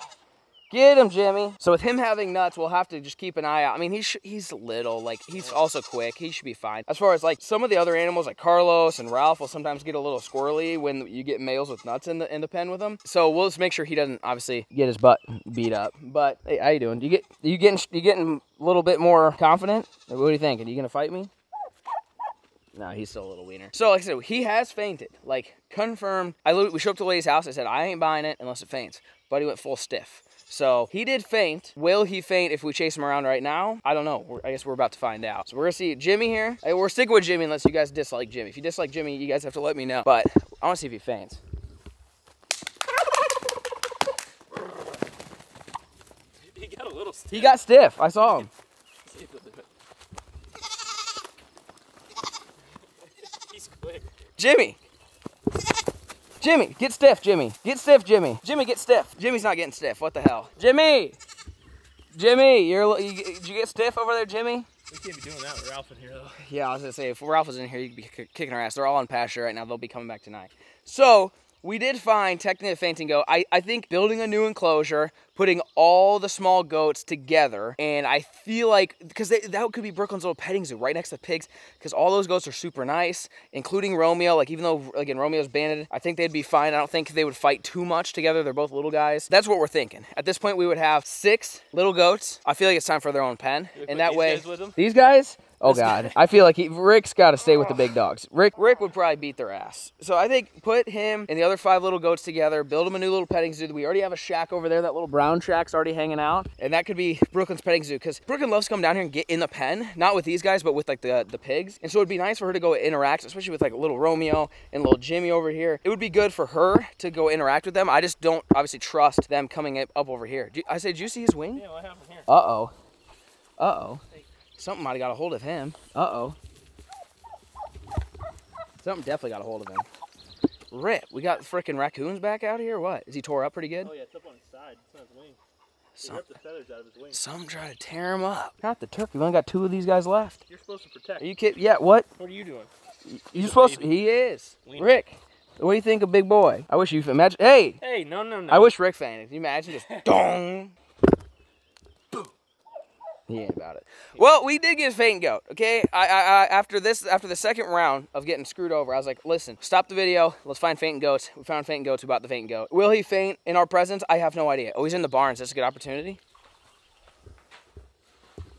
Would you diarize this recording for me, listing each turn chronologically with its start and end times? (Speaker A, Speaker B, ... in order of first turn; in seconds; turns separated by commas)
Speaker A: 0.7-21.3, Speaker B: 5.4-5.6, Speaker A: 22.7-41.4, Speaker B: 46.4-47.6, Speaker A: 47.3-48.5, Speaker B: 48.2-48.5, Speaker B: 49.0-49.6, Speaker B: 53.2-54.0, Speaker A: 54.4-54.8, Speaker A: 56.4-61.2, Speaker A: 62.1-64.7, Speaker B: 64.9-66.4, Speaker A: 66.4-121.6, Speaker B: 93.7-94.8, Speaker B: 95.6-96.1, Speaker B: 121.5-122.3, Speaker A: 122.3-122.7, Speaker A: 123.6-124.0, Speaker A: 124.6-126.4, Speaker A: 128.8-129.9, Speaker A: 130.7-133.9, Speaker B: 133.8-135.4, Speaker A: 135.9-136.3, Speaker B: 136.0-137.2, Speaker A: 137.1-140.4, Speaker B: 140.5-141.3, Speaker A: 141.2-142.1, Speaker B: 142.2-142.7, Speaker A: 143.1-147.8, Speaker B: 143.3-144.0, Speaker B: 144.6-144.9, Speaker B: 147.8-148.7, Speaker A: 148.5-150.8, Speaker B: 149.7-150.1, Speaker A: 153.3-166.2